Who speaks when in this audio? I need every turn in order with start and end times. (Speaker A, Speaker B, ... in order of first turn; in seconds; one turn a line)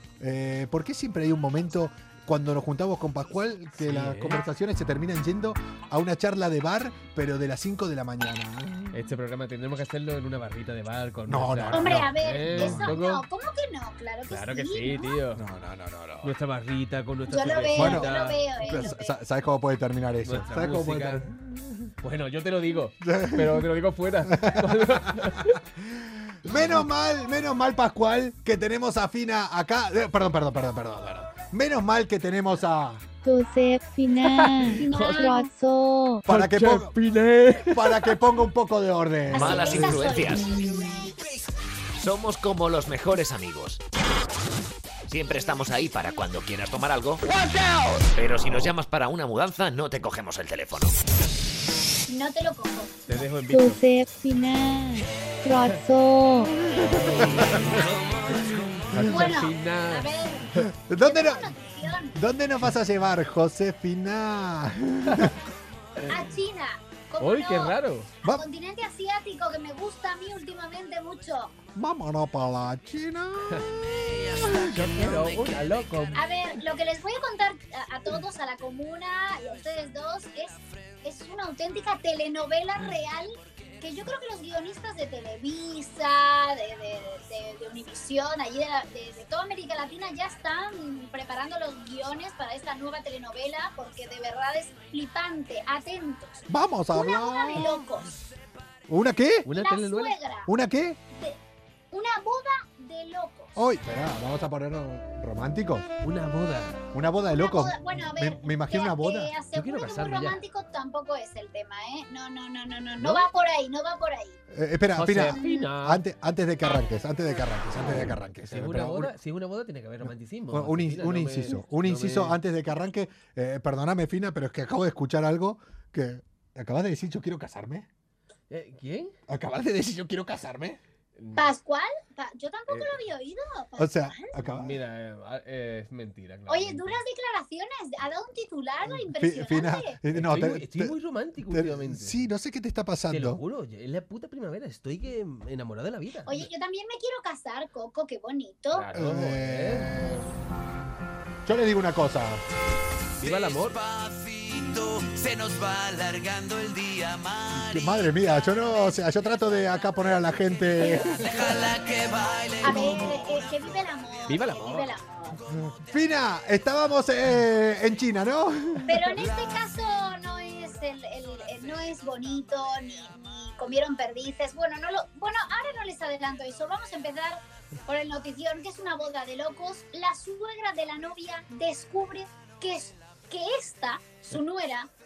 Speaker A: 0.2-8.9
Speaker B: 3.8-4.4
Speaker B: 8.9-13.2
Speaker A: 11.3-13.0
Speaker C: 11.7-15.2
Speaker B: 14.3-15.4
Speaker A: 15.4-16.3
Speaker B: 16.2-18.4
Speaker C: 17.3-19.1
Speaker A: 17.7-21.4
Speaker B: 20.2-21.3
Speaker B: 22.0-25.6
Speaker A: 23.0-23.7
Speaker A: 24.3-33.0
Speaker D: 33.2-36.2
Speaker B: 34.2-35.3
Speaker C: 34.8-35.5
Speaker A: 36.2-37.0
Speaker B: 36.3-38.2
Speaker A: 37.7-40.0
Speaker E: 39.3-40.6
Speaker C: 39.3-40.8
Speaker E: 42.0-43.8
Speaker E: 45.1-47.3
Speaker E: 48.0-51.0
Speaker C: 52.1-53.2
Speaker B: 53.1-53.8
Speaker D: 53.5-56.6
Speaker A: 56.8-57.9
Speaker B: 56.8-57.9
Speaker F: 57.7-58.7
Speaker B: 58.9-60.6
Speaker A: 58.9-59.3
Speaker C: 59.0-62.2
Speaker A: 60.6-61.5
Speaker A: 62.1-65.4
Speaker C: 66.1-71.5
Speaker B: 67.2-68.1
Speaker A: 71.8-75.3
Speaker B: 74.6-76.2
Speaker C: 76.2-98.1
Speaker A: 96.5-97.7
Speaker A: 98.9-99.5
Speaker B: 99.5-100.2
Speaker C: 99.5-100.5
Speaker A: 100.5-101.0
Speaker C: 101.9-103.5
Speaker A: 103.6-105.9
Speaker B: 106.0-106.8
Speaker A: 106.9-109.3
Speaker C: 107.2-114.4
Speaker B: 109.5-110.4
Speaker B: 113.0-113.3
Speaker A: 114.5-119.1
Speaker B: 115.0-116.0
Speaker B: 118.5-122.4
Speaker A: 120.5-127.9
Speaker B: 128.5-129.2
Speaker A: 129.3-130.8
Speaker B: 131.2-131.5
Speaker C: 131.4-134.3
Speaker B: 132.7-132.9
Speaker A: 133.8-134.8
Speaker B: 134.5-137.0
Speaker C: 136.5-140.0
Speaker A: 139.2-141.0
Speaker B: 140.1-142.2
Speaker A: 141.5-143.4
Speaker B: 143.1-146.5
Speaker C: 146.3-148.9
Speaker B: 148.7-149.9
Speaker A: 148.9-150.3
Speaker A: 151.4-152.4
Speaker F: 153.2-158.1
Speaker B: 153.2-153.8
Speaker A: 157.5-161.5
Speaker F: 161.1-163.4
Speaker C: 162.6-165.4
Speaker B: 164.3-164.9
Speaker A: 165.7-169.3
Speaker C: 168.9-184.9